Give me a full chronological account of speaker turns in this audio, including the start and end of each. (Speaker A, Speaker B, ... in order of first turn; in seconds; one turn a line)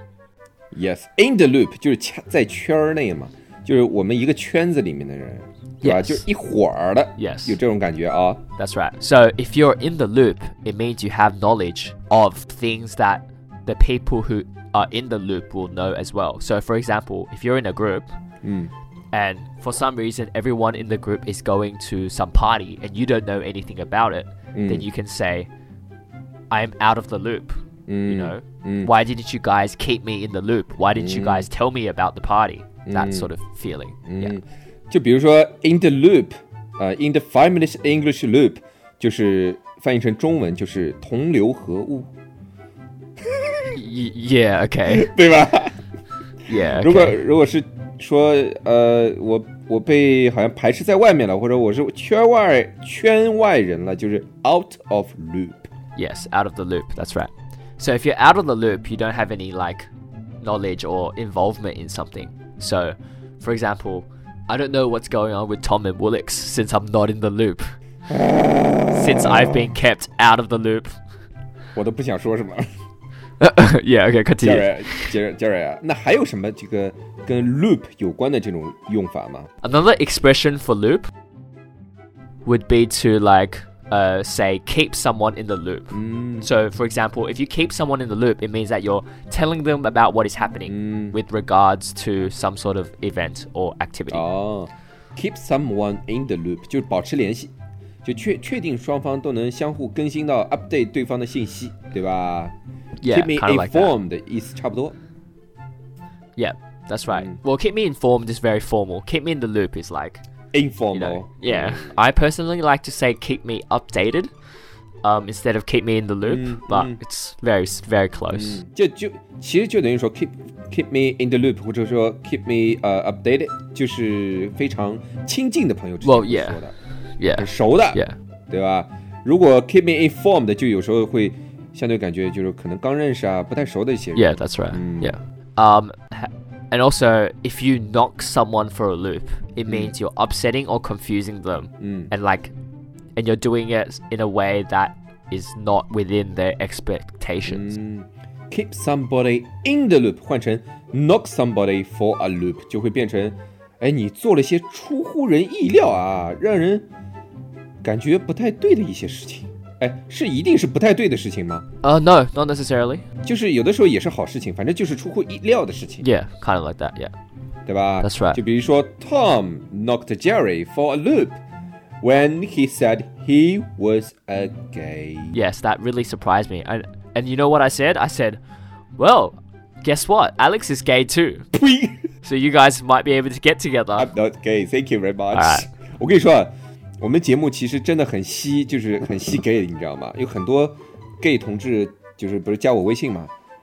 Speaker A: 0.7-8.4
Speaker B: 5.8-6.2
Speaker B: 7.2-7.6
Speaker B: 8.6-18.1
Speaker A: 18.4-18.7
Speaker B: 19.1-25.5
Speaker A: 24.5-24.9
Speaker B: 26.5-34.4
Speaker A: 27.9-28.9
Speaker A: 30.9-31.5
Speaker A: 32.9-33.3
Speaker A: 34.0-42.1
Speaker B: 43.7-45.1
Speaker A: 44.9-45.7
Speaker B: 46.5-47.2
Speaker A: 46.8-55.7
Speaker B: 56.0-59.9
Speaker B: 60.4-67.7
Speaker A: 68.1-69.7
Speaker B: 68.9-71.0
Speaker A: 71.8-72.7
Speaker B: 73.4-75.1
Speaker A: 74.4-79.5
Speaker B: 79.6-81.1
Speaker B: 82.4-94.2
Speaker A: 85.9-86.5
Speaker A: 90.7-91.2
Speaker A: 94.1-97.5
Speaker A: 98.0-102.5
Speaker B: 103.0-103.9
Speaker A: 103.0-104.9
Speaker B: 106.3-110.2
Speaker A: 107.1-107.4
Speaker A: 110.5-112.0
Speaker B: 110.9-114.3
Speaker B: 115.0-118.6
Speaker A: 116.2-117.0
Speaker A: 118.3-126.8
Speaker B: 126.0-126.6
Speaker B: 127.2-128.2
Speaker A: 127.3-135.2
Speaker B: 134.1-142.5
Speaker A: 139.7-139.9
Speaker A: 141.8-142.1
Speaker B: 143.2-147.7
Speaker A: 147.4-156.8
Speaker A: 157.8-161.6
Speaker B: 161.8-163.0
Speaker A: 163.2-166.0
Speaker B: 166.0-167.1
Speaker A: 167.7-171.4
Speaker B: 168.0-168.4
Speaker A: 172.0-175.4
Speaker B: 175.3-178.4
Speaker B: 179.0-181.5
Speaker A: 181.5-182.0
Speaker B: 182.2-184.1
Speaker A: 184.0-193.3
Speaker B: 185.3-185.7